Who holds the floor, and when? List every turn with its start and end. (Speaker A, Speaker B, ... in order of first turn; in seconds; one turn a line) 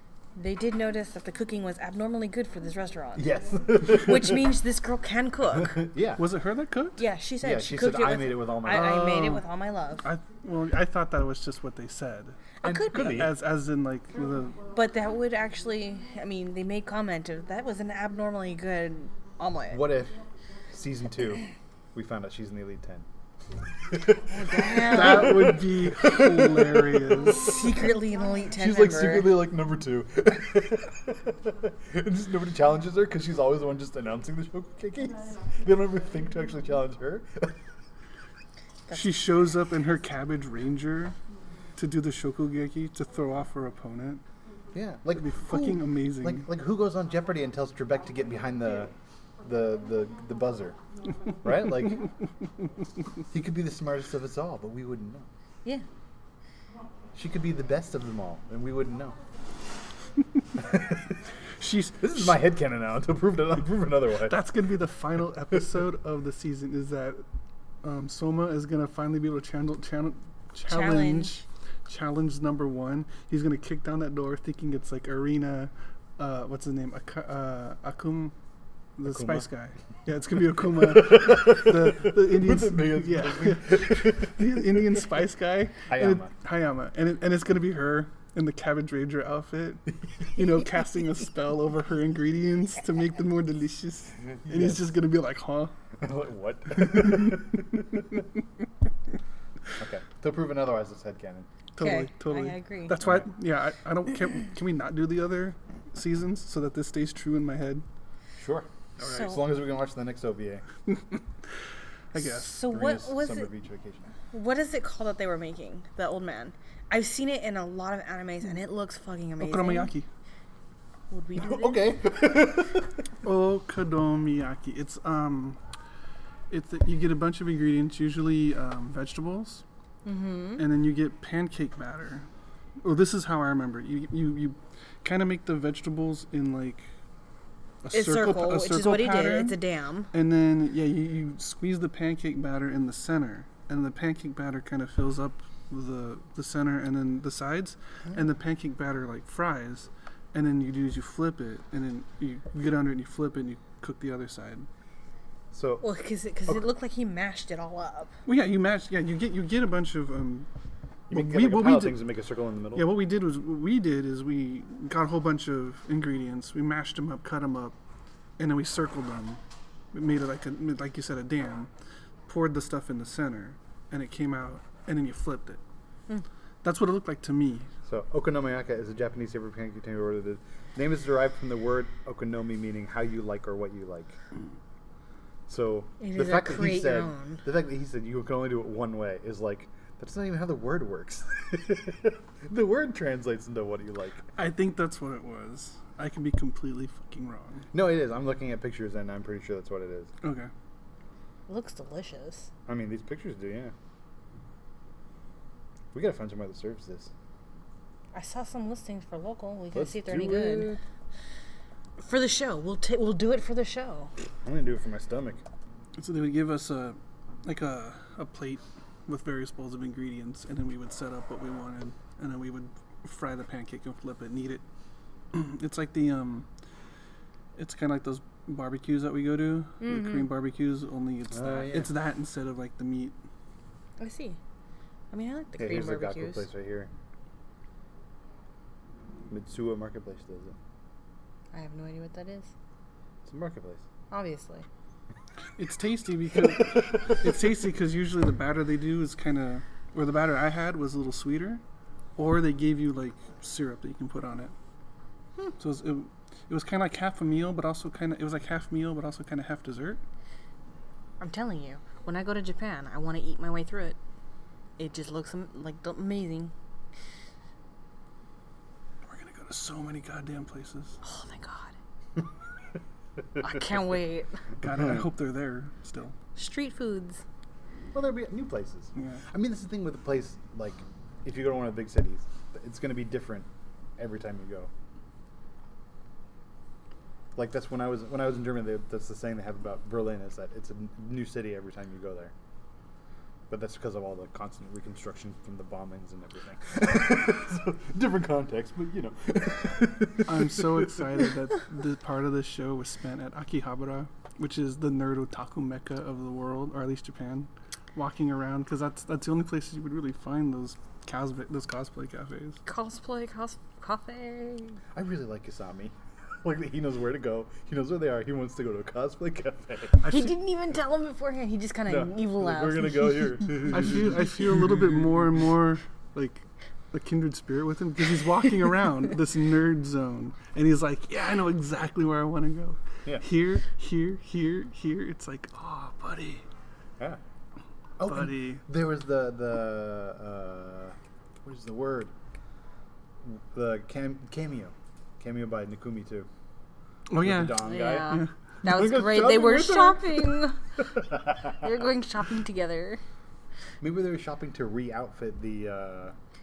Speaker A: 0.3-5.8
Speaker B: 3.1-4.5
Speaker B: 5.6-6.2
Speaker C: 6.2-7.0
Speaker A: 7.0-10.1
Speaker B: 7.4-9.1
Speaker C: 8.7-9.5
Speaker C: 10.0-12.4
Speaker A: 12.6-13.2
Speaker B: 12.6-13.3
Speaker C: 12.9-14.6
Speaker A: 14.7-19.8
Speaker B: 19.7-20.1
Speaker B: 20.7-23.1
Speaker B: 23.9-27.9
Speaker A: 24.3-25.6
Speaker C: 24.8-27.6
Speaker A: 27.3-29.4
Speaker B: 28.6-37.5
Speaker C: 38.9-41.1
Speaker C: 41.8-44.2
Speaker B: 44.7-50.8
Speaker C: 45.1-46.4
Speaker B: 51.4-52.0
Speaker B: 53.3-55.3
Speaker B: 57.1-59.2
Speaker B: 60.6-61.1
Speaker C: 61.6-62.4
Speaker B: 62.0-64.3
Speaker C: 64.2-67.2
Speaker C: 67.8-78.3
Speaker A: 70.7-71.4
Speaker C: 79.0-95.7
Speaker B: 79.0-79.5
Speaker B: 80.8-85.0
Speaker B: 85.9-86.3
Speaker B: 94.4-94.9
Speaker B: 96.0-98.2
Speaker C: 96.8-97.4
Speaker B: 99.8-101.5
Speaker C: 101.8-107.8
Speaker A: 101.8-103.0
Speaker B: 103.0-103.3
Speaker B: 108.4-110.6
Speaker A: 109.0-109.4
Speaker C: 112.1-112.6
Speaker A: 112.1-113.5
Speaker B: 112.6-114.1
Speaker A: 114.3-119.9
Speaker C: 119.4-120.1
Speaker A: 121.1-121.9
Speaker B: 121.4-123.0
Speaker C: 123.2-125.6
Speaker C: 126.5-129.6
Speaker A: 130.0-130.6
Speaker C: 130.6-132.3
Speaker C: 132.8-136.9
Speaker C: 137.8-139.6
Speaker A: 137.9-140.1
Speaker C: 140.1-154.7
Speaker B: 155.5-155.8
Speaker A: 155.8-158.1
Speaker C: 158.2-160.5
Speaker B: 161.1-162.9
Speaker C: 161.1-162.0
Speaker C: 162.7-167.8
Speaker C: 168.4-169.4
Speaker C: 169.9-171.7
Speaker C: 172.3-175.6
Speaker C: 176.6-177.7
Speaker B: 177.8-184.2
Speaker B: 185.5-194.2
Speaker A: 186.0-187.4
Speaker C: 194.3-197.6
Speaker B: 197.7-200.1
Speaker C: 200.2-200.5
Speaker A: 201.5-202.5
Speaker B: 202.7-203.7
Speaker B: 205.9-207.1
Speaker A: 208.1-210.7
Speaker B: 209.7-210.8
Speaker A: 212.0-214.1
Speaker B: 214.4-215.4
Speaker C: 215.9-224.6
Speaker C: 225.3-226.4
Speaker C: 227.6-233.2
Speaker A: 229.8-230.3
Speaker B: 231.3-231.9
Speaker A: 234.0-234.4
Speaker A: 235.1-236.5
Speaker B: 235.6-236.9
Speaker B: 239.3-240.6
Speaker A: 241.5-242.5
Speaker B: 243.2-243.8
Speaker A: 244.1-244.7
Speaker C: 245.6-251.6
Speaker C: 252.2-254.5
Speaker C: 255.6-260.0
Speaker A: 261.2-264.0
Speaker A: 264.8-266.5
Speaker C: 269.1-271.0
Speaker A: 271.0-271.7
Speaker A: 273.4-274.4
Speaker C: 274.6-276.1
Speaker A: 276.3-277.2
Speaker B: 277.9-283.5
Speaker C: 278.9-279.2
Speaker B: 284.0-284.7
Speaker B: 287.4-292.3
Speaker B: 293.5-301.1
Speaker C: 300.3-312.6
Speaker A: 312.6-314.8
Speaker B: 314.9-320.1
Speaker C: 320.0-320.3
Speaker A: 320.0-323.4
Speaker B: 321.9-324.3
Speaker C: 323.7-336.4
Speaker B: 338.0-342.1
Speaker C: 338.1-338.6
Speaker B: 343.2-346.3
Speaker C: 347.1-348.3
Speaker B: 347.2-350.4
Speaker A: 347.6-350.6
Speaker B: 351.0-351.5
Speaker A: 351.3-353.0
Speaker B: 353.8-356.2